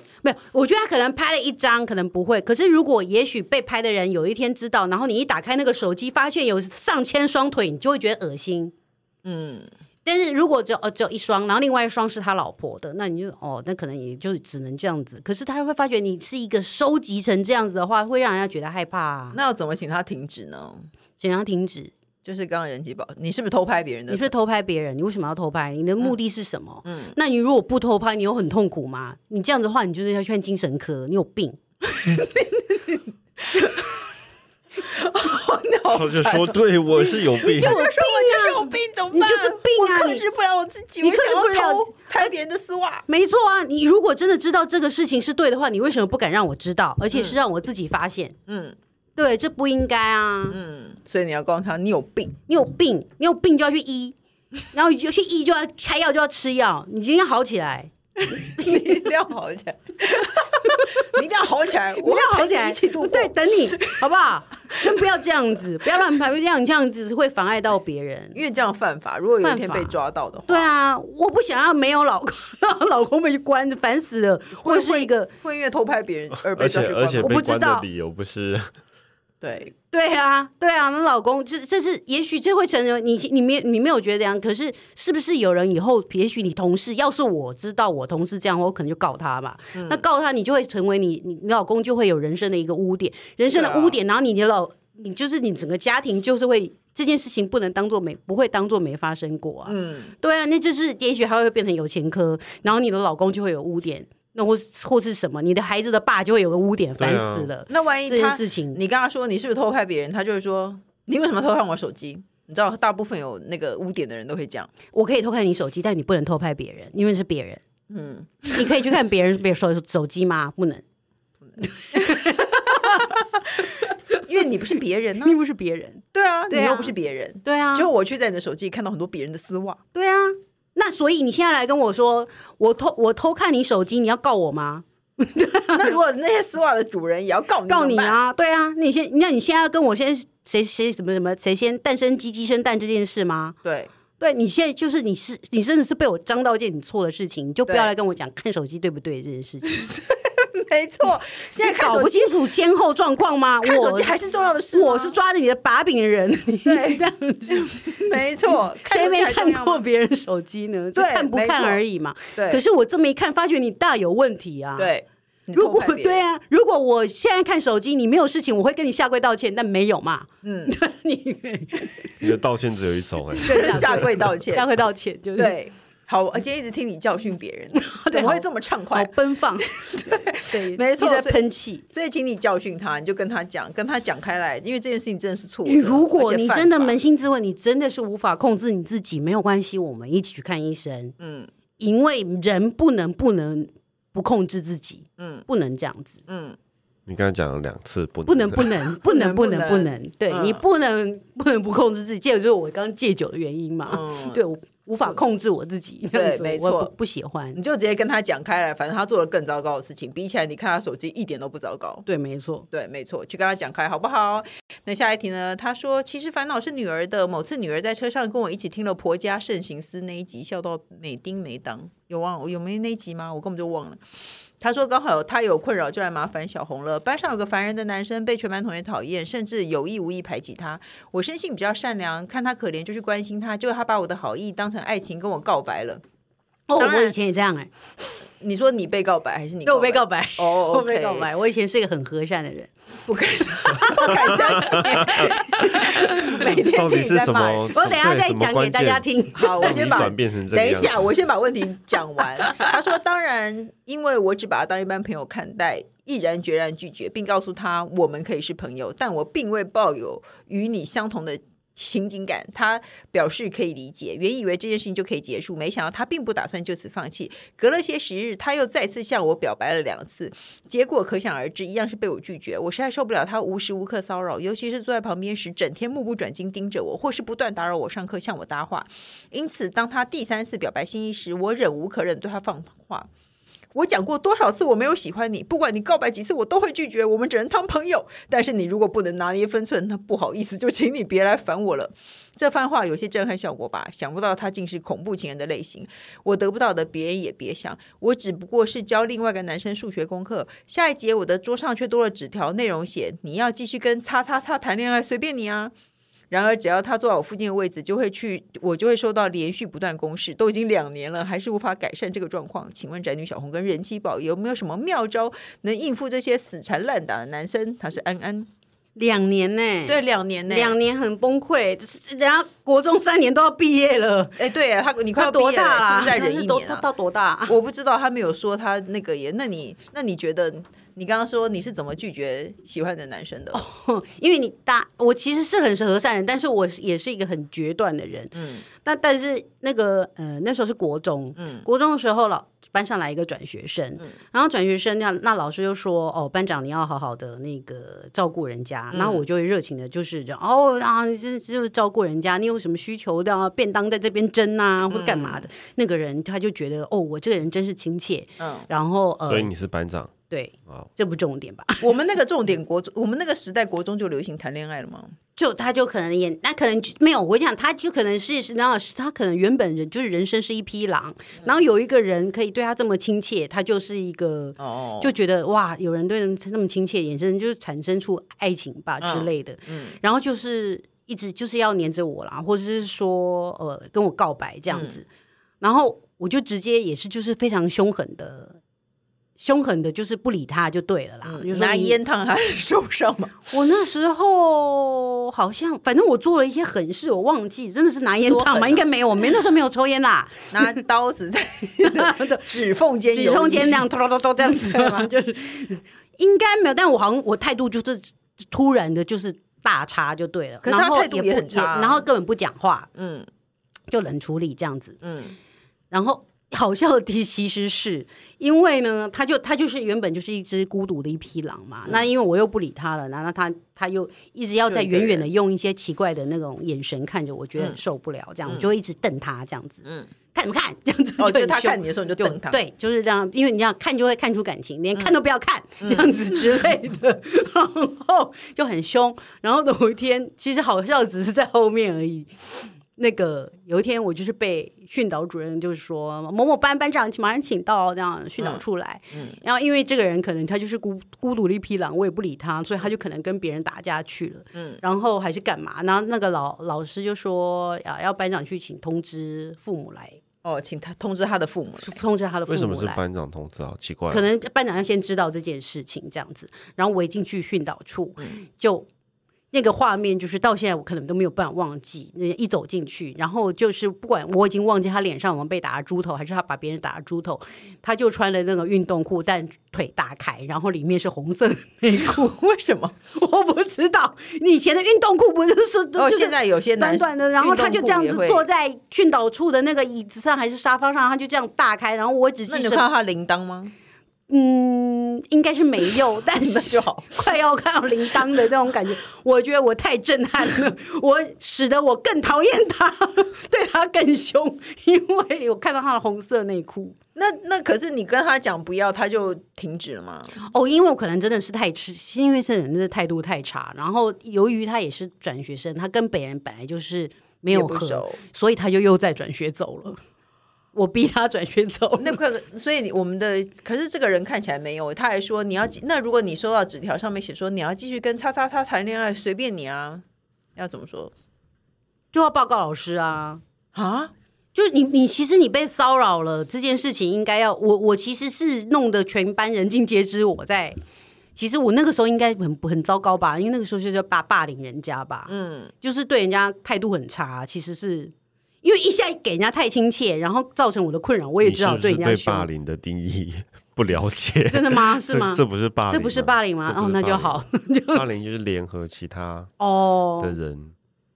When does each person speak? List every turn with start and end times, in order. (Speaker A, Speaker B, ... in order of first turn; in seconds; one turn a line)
Speaker A: 0.2-8.7
Speaker B: 9.2-9.7
Speaker A: 10.1-19.4
Speaker B: 19.3-20.9
Speaker A: 21.2-21.9
Speaker B: 22.2-24.3
Speaker A: 24.2-31.6
Speaker B: 26.9-27.1
Speaker B: 33.5-33.9
Speaker B: 34.8-43.0
Speaker C: 35.9-37.8
Speaker A: 37.7-38.5
Speaker A: 39.1-40.2
Speaker A: 41.0-41.7
Speaker A: 43.1-48.3
Speaker B: 47.1-47.4
Speaker B: 48.5-48.8
Speaker A: 49.2-50.5
Speaker B: 50.5-52.4
Speaker A: 52.5-54.1
Speaker A: 54.7-57.9
Speaker B: 58.2-64.1
Speaker A: 62.0-68.4
Speaker B: 68.3-70.7
Speaker A: 69.5-70.0
Speaker A: 70.5-75.3
Speaker B: 74.6-77.4
Speaker C: 76.4-78.7
Speaker A: 77.2-77.8
Speaker B: 79.4-79.7
Speaker A: 79.9-99.7
Speaker B: 89.7-90.0
Speaker B: 93.5-94.0
Speaker B: 99.7-100.1
Speaker A: 100.2-108.8
Speaker C: 107.0-107.5
Speaker B: 107.7-114.7
Speaker A: 114.9-117.6
Speaker B: 117.9-118.7
Speaker A: 118.6-120.8
Speaker A: 121.9-123.1
Speaker B: 122.5-123.0
Speaker B: 124.3-125.4
Speaker A: 125.3-126.9
Speaker B: 126.1-129.8
Speaker A: 127.5-127.8
Speaker A: 129.9-135.8
Speaker B: 135.7-138.2
Speaker A: 137.7-143.6
Speaker B: 143.6-143.9
Speaker A: 144.2-149.7
Speaker B: 147.7-147.9
Speaker B: 149.7-152.3
Speaker A: 151.7-154.2
Speaker B: 153.6-155.2
Speaker A: 154.8-157.8
Speaker B: 156.7-159.8
Speaker A: 158.9-164.9
Speaker B: 160.9-161.8
Speaker B: 162.3-162.6
Speaker B: 164.8-166.2
Speaker A: 165.8-172.3
Speaker B: 170.4-170.8
Speaker C: 172.2-174.1
Speaker B: 173.4-174.7
Speaker A: 173.5-174.0
Speaker A: 174.6-175.5
Speaker B: 175.3-179.1
Speaker A: 177.8-178.4
Speaker A: 178.9-179.6
Speaker B: 180.0-187.0
Speaker A: 180.6-181.8
Speaker A: 185.7-191.1
Speaker B: 191.2-191.5
Speaker A: 191.8-196.1
Speaker B: 195.2-195.4
Speaker B: 196.3-196.6
Speaker C: 197.1-198.7
Speaker A: 198.3-207.6
Speaker B: 198.9-200.7
Speaker B: 203.9-204.4
Speaker B: 206.1-206.9
Speaker B: 207.5-212.1
Speaker A: 212.1-212.7
Speaker B: 212.7-224.0
Speaker B: 224.6-236.0
Speaker A: 236.7-237.7
Speaker B: 236.8-237.2
Speaker B: 238.4-241.3
Speaker A: 239.7-242.7
Speaker B: 243.1-247.7
Speaker A: 243.8-244.2
Speaker C: 246.5-251.1
Speaker A: 247.8-249.9
Speaker B: 249.3-283.1
Speaker B: 283.7-305.7
Speaker B: 306.3-318.5
Speaker A: 319.0-320.0
Speaker B: 319.9-320.8
Speaker A: 320.5-324.3
Speaker B: 324.4-326.8
Speaker A: 325.2-327.5
Speaker B: 327.5-333.6
Speaker A: 333.5-359.5
Speaker B: 338.3-338.6
Speaker B: 341.4-341.7
Speaker B: 348.9-349.3
Speaker B: 354.9-355.5
Speaker B: 358.4-358.7
Speaker C: 359.3-360.1
Speaker A: 360.3-361.7
Speaker B: 361.8-365.1
Speaker A: 365.4-385.0
Speaker B: 374.6-375.1
Speaker B: 379.0-380.0
Speaker B: 384.7-385.0
Speaker A: 385.6-388.6
Speaker A: 389.4-391.9
Speaker B: 391.2-393.4
Speaker A: 393.5-400.7
Speaker B: 398.3-398.9
Speaker B: 400.5-403.9
Speaker A: 402.0-402.4
Speaker A: 403.1-412.9
Speaker B: 404.4-405.1
Speaker B: 410.6-412.1
Speaker B: 412.9-413.3
Speaker A: 413.9-414.9
Speaker B: 415.0-415.4
Speaker A: 415.9-429.8
Speaker B: 424.7-425.3
Speaker B: 428.5-428.7
Speaker B: 429.8-430.1
Speaker A: 430.3-442.3
Speaker B: 431.2-432.6
Speaker B: 434.9-435.2
Speaker B: 435.8-436.5
Speaker A: 443.0-460.2
Speaker B: 448.4-449.4
Speaker B: 454.6-454.8
Speaker B: 460.4-462.0
Speaker A: 461.9-463.0
Speaker C: 462.5-464.3
Speaker A: 464.1-468.9
Speaker B: 468.2-468.4
Speaker A: 469.5-482.3
Speaker B: 482.0-483.0
Speaker A: 483.1-486.3
Speaker B: 486.0-488.5
Speaker A: 486.8-492.8
Speaker B: 492.5-493.7
Speaker A: 494.3-507.0
Speaker B: 496.4-497.2
Speaker B: 507.2-510.4
Speaker A: 510.4-520.0
Speaker B: 517.5-518.2
Speaker A: 520.7-522.1
Speaker B: 522.0-530.0
Speaker B: 530.6-531.1
Speaker A: 532.1-533.4
Speaker B: 533.7-534.1
Speaker A: 534.5-540.8
Speaker A: 541.4-545.3
Speaker B: 545.3-545.7
Speaker A: 545.8-548.1
Speaker A: 548.6-552.5
Speaker C: 551.4-559.5
Speaker A: 554.5-558.0
Speaker A: 559.6-560.4
Speaker C: 560.2-560.8